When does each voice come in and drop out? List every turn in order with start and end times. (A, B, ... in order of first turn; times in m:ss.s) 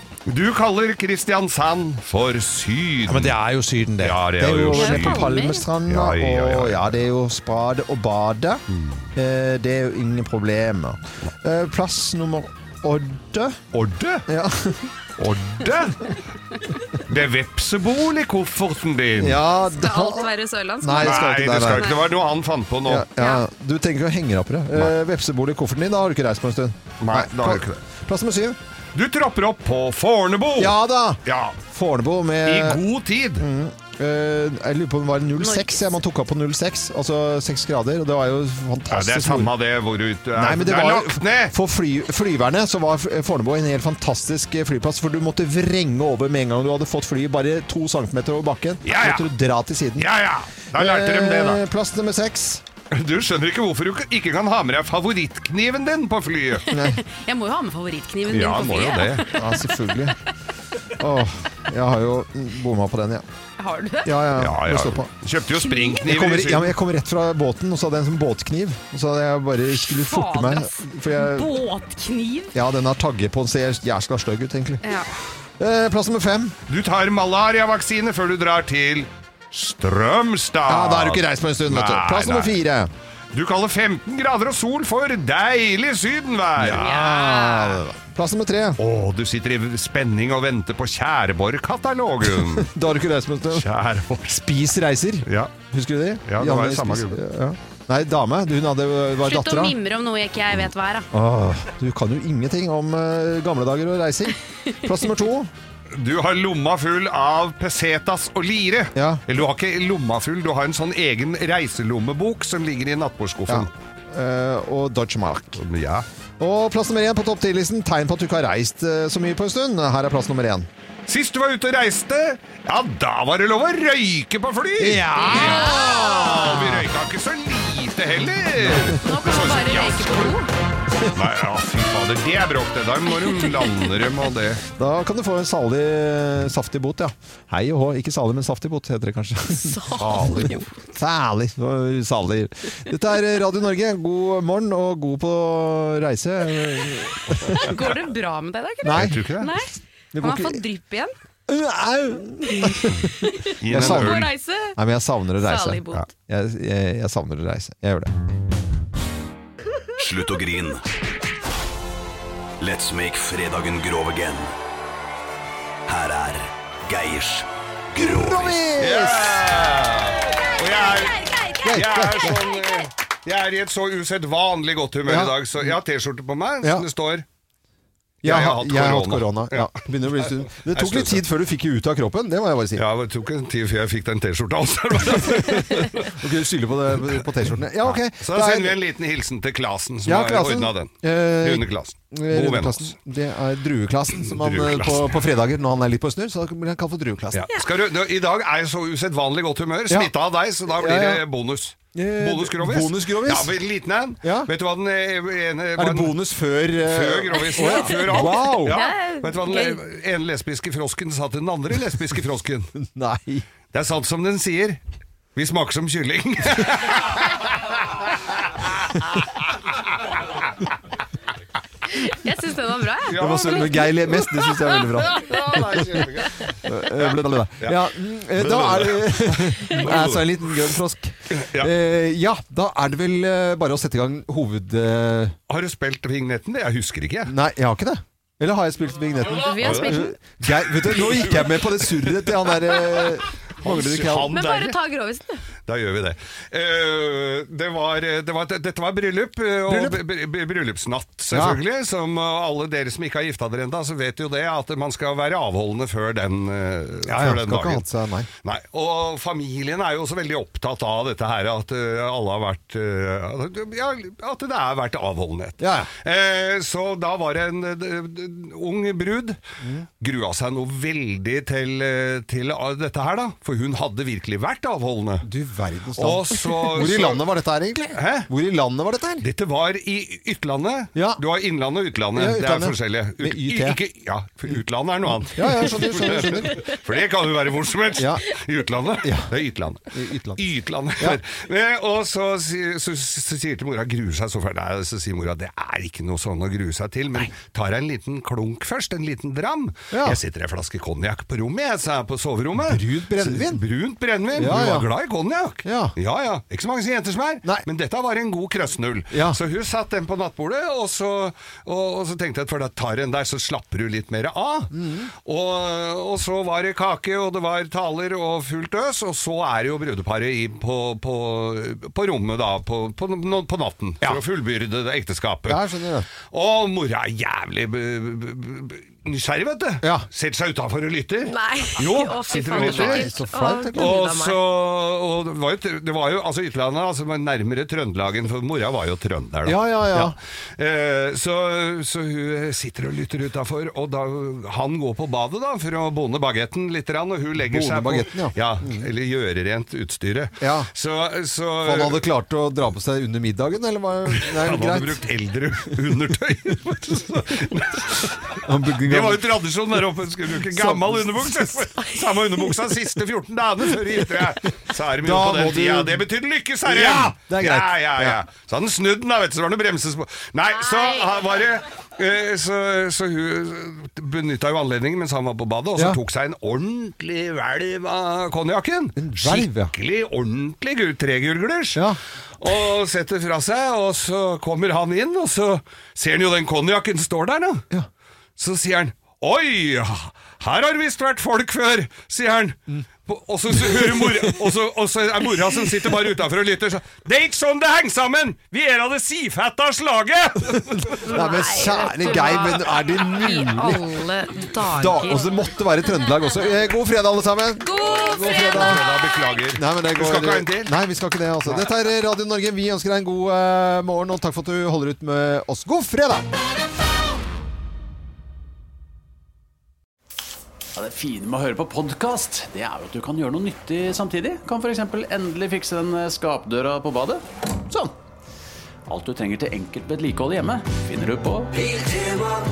0:00.2-0:03.3 A
0:03.0-0:08.6 B
0:04.0-0:05.3 A
0:04.7-0:05.6 C
0:05.9-0:07.0 A
0:08.7-0:09.1 A
0:09.1-0:13.6 B
0:13.7-0:14.3 A
0:14.3-0:14.9 B
0:15.2-0:16.2 A
0:17.0-0:19.4 A
0:19.2-0:20.3 B
0:19.6-0:22.0 C
0:20.8-0:22.0 B
0:21.0-0:23.1 A
0:22.9-0:28.6 B
0:27.0-0:27.8 A
0:28.9-0:31.6 A
0:30.6-0:32.8 B
0:32.4-0:33.4 A
0:33.4-0:39.5 B
0:35.4-0:35.9 C
0:38.9-0:41.5 A
0:40.3-0:50.1 B
0:48.8-0:49.2 A
0:50.0-0:51.6 A
0:50.7-0:52.6 B
0:52.9-0:56.7 A
0:56.7-0:57.0 B
0:56.7-0:59.5 C
0:58.3-0:59.3 A
0:59.3-1:00.1 B
1:00.9-1:03.2 B
1:03.6-1:04.3 C
1:04.0-1:05.1 B
1:04.4-1:06.8 A
1:05.6-1:06.0 C
1:06.0-1:11.5 B
1:09.7-1:12.5 C
1:12.5-1:14.8 B
1:14.8-1:15.1 C
1:15.6-1:16.6 B
1:16.7-1:22.6 A
1:20.7-1:22.9 B
1:23.3-1:26.9 A
1:26.6-1:28.8 B
1:26.8-1:27.8 C
1:28.8-1:32.7 A
1:32.4-1:33.6 B
1:33.5-1:34.4 A
1:34.3-1:39.8 B
1:35.2-1:35.5 A
1:36.2-1:37.2 A
1:39.2-1:41.1 C
1:41.1-1:45.5 B
1:45.9-1:53.7 A
1:48.9-1:49.2 B
1:53.5-1:55.6 B
1:55.6-1:56.0 A
1:56.4-2:00.7 B
2:01.1-2:10.4 A
2:04.8-2:06.8 B
2:05.2-2:06.6 C
2:08.6-2:09.0 B
2:08.9-2:10.5 C
2:11.1-2:14.6 A
2:14.7-2:19.8 B
2:19.5-2:20.6 C
2:20.0-2:20.6 A
2:20.4-2:27.9 B
2:27.5-2:31.1 C
2:28.8-2:29.3 B
2:28.9-2:29.5 A
2:30.1-2:30.6 B
2:31.5-2:38.1 B
2:32.4-2:34.8 C
2:33.6-2:34.3 A
2:35.4-2:36.0 C
2:40.0-2:40.8 D
2:42.6-2:44.5 D
2:45.9-2:48.6 D
2:48.0-2:49.5 B
2:48.8-2:57.2 A
2:50.5-2:52.9 C
2:51.6-2:52.4 B
2:55.0-2:55.8 B
2:58.2-3:01.2 A
2:58.2-3:02.8 B
3:02.8-3:06.2 A
3:05.3-3:08.8 B
3:07.8-3:12.9 A
3:10.0-3:17.5 B
3:14.2-3:15.1 A
3:17.3-3:26.2 A
3:20.7-3:21.2 B
3:21.9-3:23.5 B
3:24.2-3:24.5 B
3:25.8-3:28.8 B
3:26.8-3:32.7 A
3:27.4-3:29.8 C
3:32.8-3:33.4 B
3:33.7-3:34.8 A
3:35.3-3:37.5 A
3:38.3-3:38.9 A
3:41.9-3:43.9 C
3:43.1-3:44.1 A
3:43.1-3:46.0 B
3:44.8-3:47.8 A
3:46.6-3:55.4 B
3:48.4-3:50.6 A
3:51.3-3:51.7 A
3:55.5-3:57.3 A
3:57.3-4:04.4 B
3:59.2-4:00.1 C
3:59.6-4:00.0 A
4:00.9-4:01.6 A
4:03.6-4:04.8 A
4:04.3-4:05.4 C
4:05.6-4:17.9 A
4:09.7-4:10.0 B
4:11.3-4:11.6 B
4:17.0-4:18.3 B
4:18.4-4:29.4 A
4:25.6-4:25.9 B
4:29.6-4:29.9 B
4:30.0-4:35.3 A
4:35.2-4:39.3 B
4:36.0-4:37.3 A
4:37.9-4:38.3 A
4:39.2-5:25.6 A
4:40.9-4:41.2 B
4:42.1-4:43.8 B
4:45.2-4:46.7 B
4:48.0-4:48.3 B
4:49.0-4:49.3 B
4:49.9-4:50.4 B
4:59.9-5:00.2 B
5:02.5-5:03.6 B
5:04.3-5:04.9 B
5:05.6-5:05.9 B
5:09.1-5:09.4 B
5:14.7-5:15.1 B
5:25.5-5:26.1 B
5:26.3-5:33.1 A
5:29.8-5:30.1 B
5:31.2-5:34.4 C
5:32.3-5:34.0 B
5:33.7-5:52.0 A
5:39.4-5:40.2 B
5:47.4-5:48.9 B
5:50.4-5:50.7 B
5:51.6-5:55.0 B
5:54.1-6:21.9 A
5:58.4-5:59.3 B
6:00.4-6:01.7 B
6:05.0-6:06.0 B
6:06.6-6:08.2 B
6:10.6-6:11.1 C
6:19.0-6:19.7 B
6:22.4-6:27.6 A
6:28.4-6:41.2 A
6:33.6-6:34.2 B
6:40.9-6:43.8 B
6:41.1-6:45.3 C
6:44.7-6:48.9 B
6:47.6-6:49.3 C
6:47.9-6:50.7 A
6:49.5-6:56.3 B
7:00.8-7:07.9 E
7:08.9-7:12.2 E